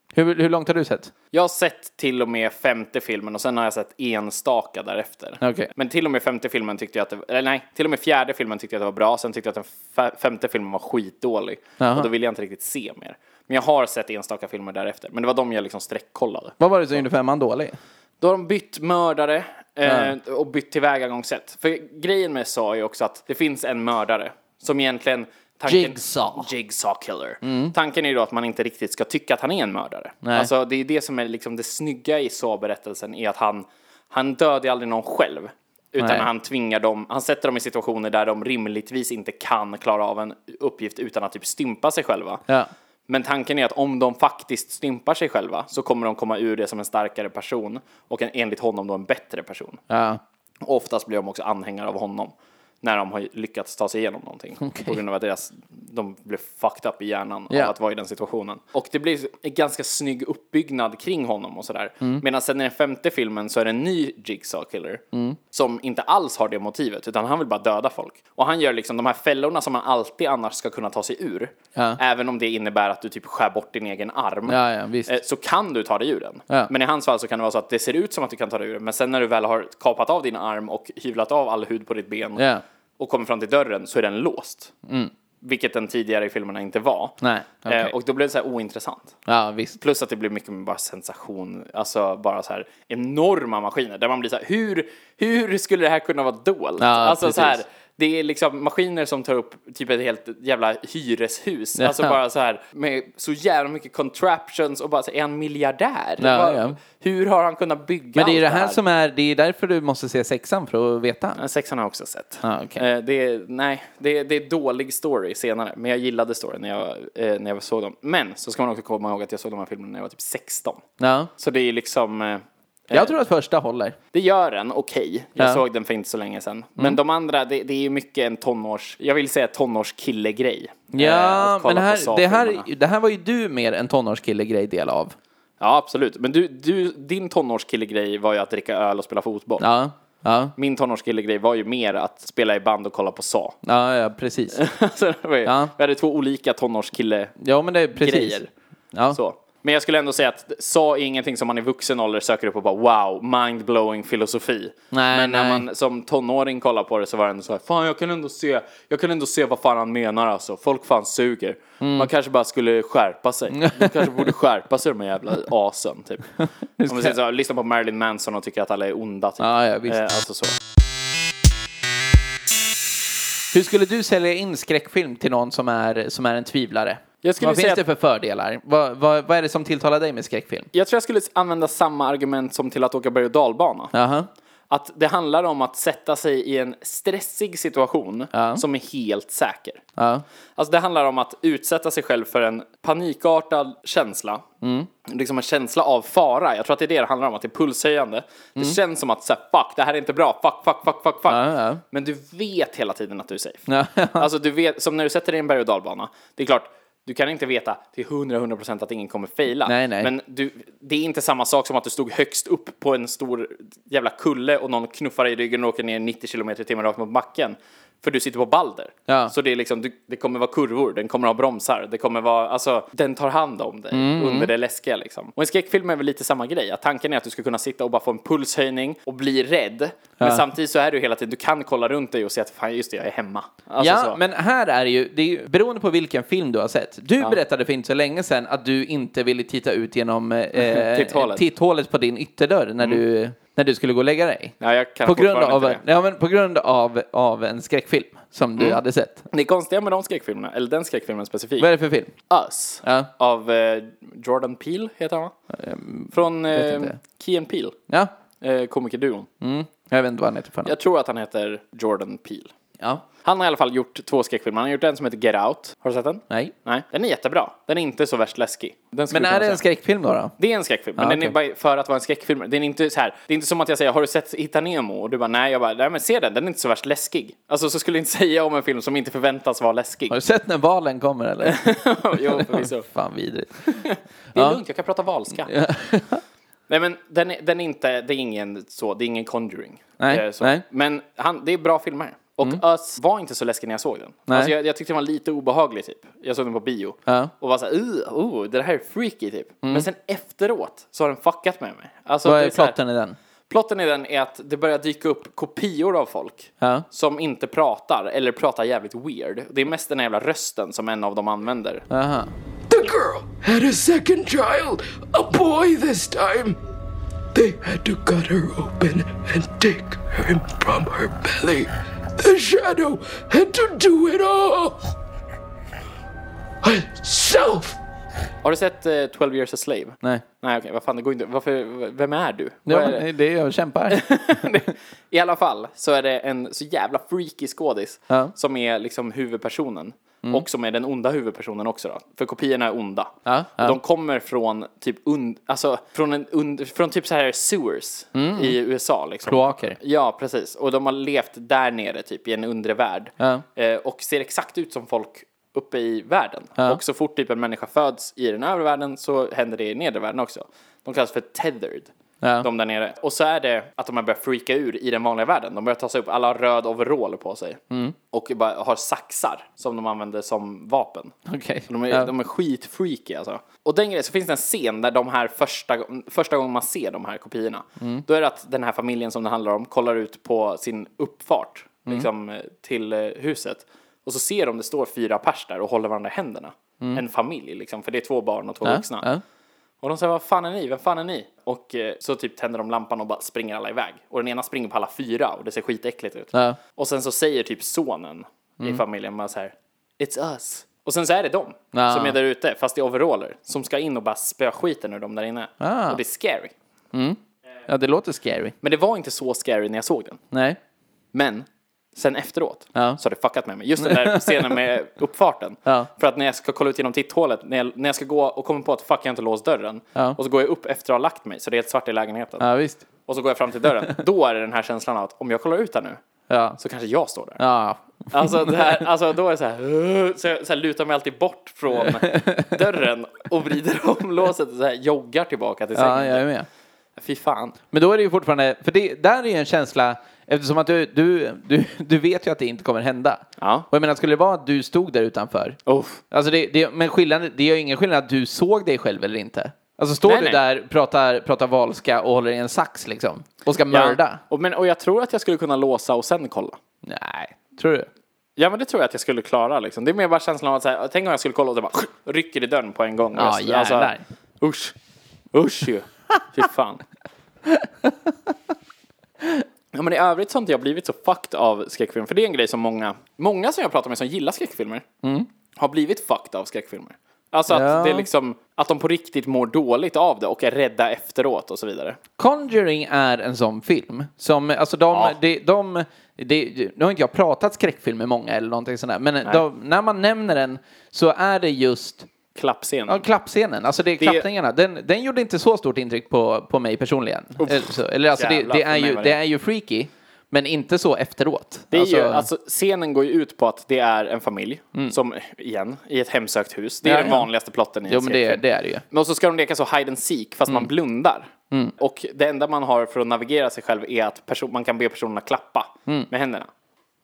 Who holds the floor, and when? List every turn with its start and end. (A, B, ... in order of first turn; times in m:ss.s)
0:00.1-0:01.1 A
0:01.3-0:17.0 B
0:05.4-0:05.7 A
0:11.8-0:12.1 A
0:16.6-0:17.8 A
0:18.2-0:42.4 B
0:19.8-0:20.1 A
0:25.7-0:26.5 A
0:27.4-0:27.7 A
0:30.2-0:30.5 A
0:36.0-0:36.3 A
0:43.1-0:49.8 B
0:49.9-0:50.2 A
0:50.6-1:22.4 B
0:54.6-0:55.0 A
1:05.1-1:05.4 A
1:14.5-1:15.1 A
1:22.4-1:22.6 A
1:23.0-1:24.7 B
1:24.9-1:25.1 A
1:25.4-1:29.1 B
1:27.2-1:27.9 A
1:29.3-1:29.8 A
1:29.8-1:48.8 B
1:36.8-1:37.6 A
1:41.8-1:42.2 A
1:46.2-1:46.8 A
1:48.2-1:51.4 A
1:51.4-2:00.8 B
1:52.4-1:52.8 A
2:01.0-2:01.3 A
2:01.4-2:03.2 B
2:02.9-2:04.0 A
2:04.1-2:12.7 B
2:10.9-2:15.2 A
2:15.6-2:19.6 B
2:19.6-2:20.5 A
2:20.6-2:23.6 B
2:23.6-2:24.6 A
2:24.5-2:27.4 B
2:25.4-2:25.7 A
2:27.4-2:28.4 A
2:28.0-2:28.5 B
2:29.1-2:46.3 B
2:34.9-2:35.6 A
2:41.8-2:42.1 A
2:43.6-2:44.3 A
2:46.4-2:47.2 A
2:46.9-2:50.6 B
2:49.4-2:50.0 A
2:53.5-3:00.7 A
2:57.2-2:57.8 B
3:00.7-3:03.9 B
3:03.9-3:04.3 A
3:04.7-3:09.8 B
3:08.3-3:08.6 A
3:10.0-3:10.2 A
3:10.6-3:14.4 B
3:14.6-3:14.9 A
3:15.0-3:23.6 B
3:21.3-3:21.8 A
3:23.7-3:24.3 A
3:24.2-3:54.2 B
3:29.7-3:30.1 A
3:39.1-3:39.3 A
3:43.9-3:44.5 A
3:53.8-4:04.5 A
4:00.6-4:01.4 B
4:04.6-4:05.8 B
4:05.0-4:09.2 A
4:08.6-4:11.7 B
4:11.6-4:12.1 A
4:12.3-4:15.3 B
4:12.8-4:13.1 A
4:15.5-4:17.0 A
4:16.1-4:17.8 B
4:18.4-4:19.3 B
4:19.4-4:20.8 A
4:20.7-4:22.5 B
4:23.2-4:29.6 B
4:29.1-4:30.3 A
4:30.4-4:40.2 B
4:31.0-4:31.3 A
4:40.1-4:41.6 A
4:41.4-4:42.9 B
4:42.3-4:43.8 A
4:43.7-4:45.5 B
4:44.4-4:44.6 A
4:45.5-4:46.2 A
4:46.7-5:02.8 B
4:50.0-4:50.6 A
5:02.2-5:03.2 A
5:03.5-5:11.9 B
5:11.9-5:12.3 A
5:12.7-5:16.6 C
5:17.3-5:24.8 C
5:26.6-5:27.8 C
5:28.4-5:33.1 B
5:32.7-5:34.0 A
5:33.9-6:01.9 B
5:43.2-5:43.8 A
5:48.2-5:48.6 A
5:49.3-5:49.8 A
6:02.2-6:02.5 A
6:02.4-6:11.2 B
6:11.3-6:12.1 A
6:11.7-6:29.1 B
6:28.6-6:29.2 A
6:29.8-6:46.5 B
6:36.3-6:36.6 A
6:41.7-6:42.2 A
6:45.6-6:46.0 A
6:46.9-6:48.5 A
6:48.6-6:50.2 B
6:50.3-6:50.6 A
6:51.1-7:02.5 B
6:52.8-6:53.0 A
6:53.8-6:54.6 A
7:02.4-7:02.8 A
7:03.1-7:06.0 B
7:06.3-7:06.6 A
7:06.6-7:07.4 B
7:07.4-7:08.6 A
7:08.1-7:16.2 B
7:11.8-7:12.6 A
7:15.8-7:16.5 A
7:17.0-7:17.6 B
7:17.7-7:25.6 A
7:23.4-7:23.7 B
7:25.7-7:26.0 B
7:26.1-7:34.2 A
7:30.0-7:30.4 B
7:33.7-7:36.6 B
7:36.8-7:37.9 A
7:38.4-7:44.8 B
7:43.2-7:44.0 A
7:45.3-7:46.8 B
7:47.5-7:48.1 A
7:49.7-7:54.8 B
7:55.0-7:55.3 A
7:55.6-8:02.0 B
7:57.5-7:58.1 A
8:02.2-8:12.1 A
8:12.4-8:13.0 B
8:12.9-8:22.3 A
8:14.0-8:14.3 B
8:17.4-8:19.2 B
8:21.7-8:36.5 B
8:26.8-8:27.3 A
8:27.9-8:28.8 A